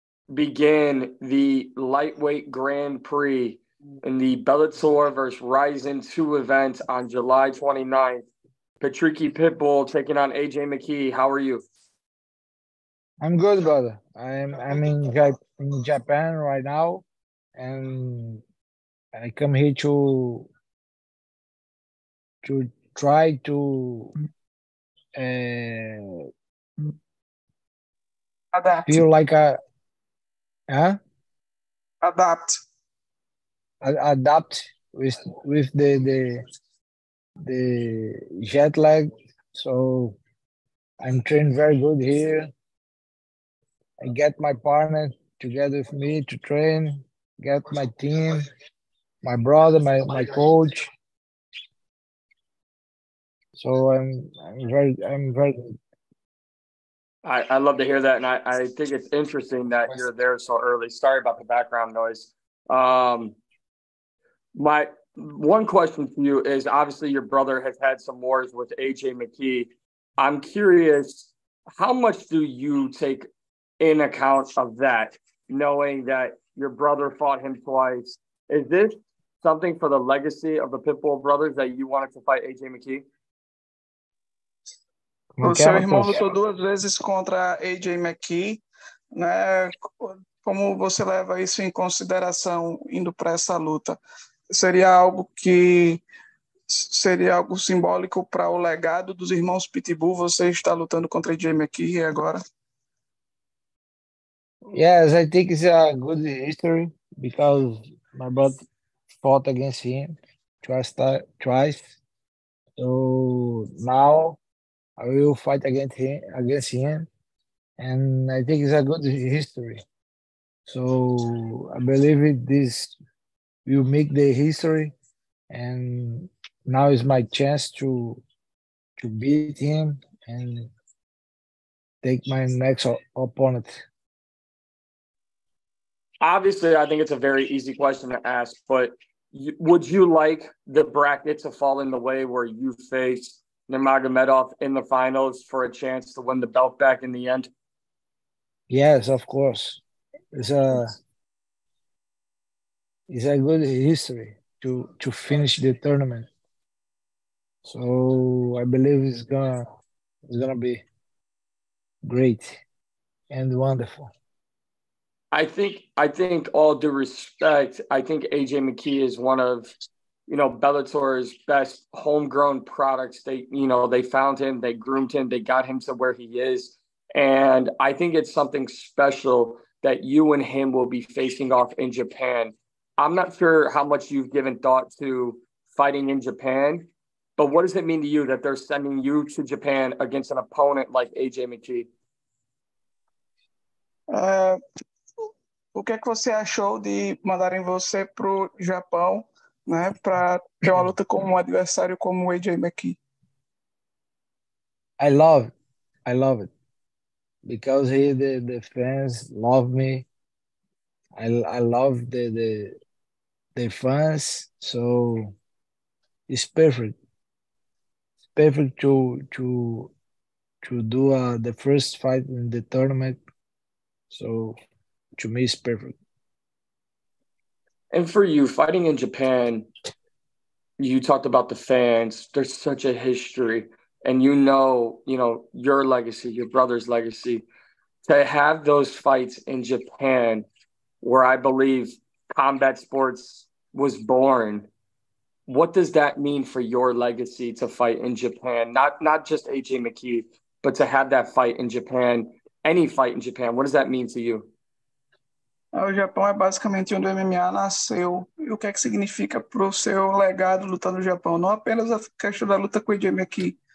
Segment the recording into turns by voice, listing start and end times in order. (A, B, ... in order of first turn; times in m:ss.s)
0:00.3-0:08.2 A
0:08.8-0:11.6 A
0:13.2-0:17.0 B
0:17.6-0:18.4 B
0:19.1-0:20.5 B
0:22.4-0:24.1 B
0:25.2-0:26.2 B
0:28.5-0:29.0 C
0:28.8-0:29.6 B
0:30.7-0:31.0 B
0:32.0-0:32.5 C
0:33.8-0:36.4 B
0:37.4-0:40.2 B
0:41.0-0:42.5 B
0:44.0-0:48.4 B
0:49.2-0:50.9 B
0:53.6-0:55.8 B
0:57.2-1:03.4 A
1:04.6-1:13.3 A
1:13.8-1:23.0 A
1:25.4-1:26.2 B
1:25.4-1:28.6 C
1:29.1-1:34.0 C
1:34.5-1:36.0 C
1:36.7-1:42.4 C
1:44.7-1:48.6 B
1:49.2-1:52.0 B
1:52.8-1:54.4 B
1:55.0-1:57.1 B
1:57.8-1:59.8 B
2:00.7-2:03.0 B
2:03.7-2:04.9 B
2:05.5-2:08.2 B
2:09.0-2:10.7 B
2:12.0-2:13.8 B
2:16.2-2:27.5 A
2:28.7-2:29.8 B
2:30.3-2:30.9 B
2:33.1-2:36.3 B
2:37.6-2:39.6 B
2:40.3-2:40.8 B
2:42.0-2:42.6 B
2:43.3-2:44.1 B
2:45.3-2:49.7 A
2:50.3-3:11.9 A
3:14.1-3:14.6 C
3:15.8-3:23.0 C
3:25.0-3:25.5 B
3:26.1-3:26.5 B
3:27.4-3:30.1 B
3:31.2-3:32.8 B
3:33.6-3:35.4 B
3:36.3-3:37.0 B
3:38.4-3:39.9 B
3:40.6-3:43.2 B
3:44.1-3:44.6 B
3:45.2-3:46.0 B
3:47.9-3:49.7 A
3:50.8-3:57.5 A
3:58.1-4:00.5 A
4:01.0-4:04.7 A
4:05.5-4:14.5 A
4:15.8-4:23.6 C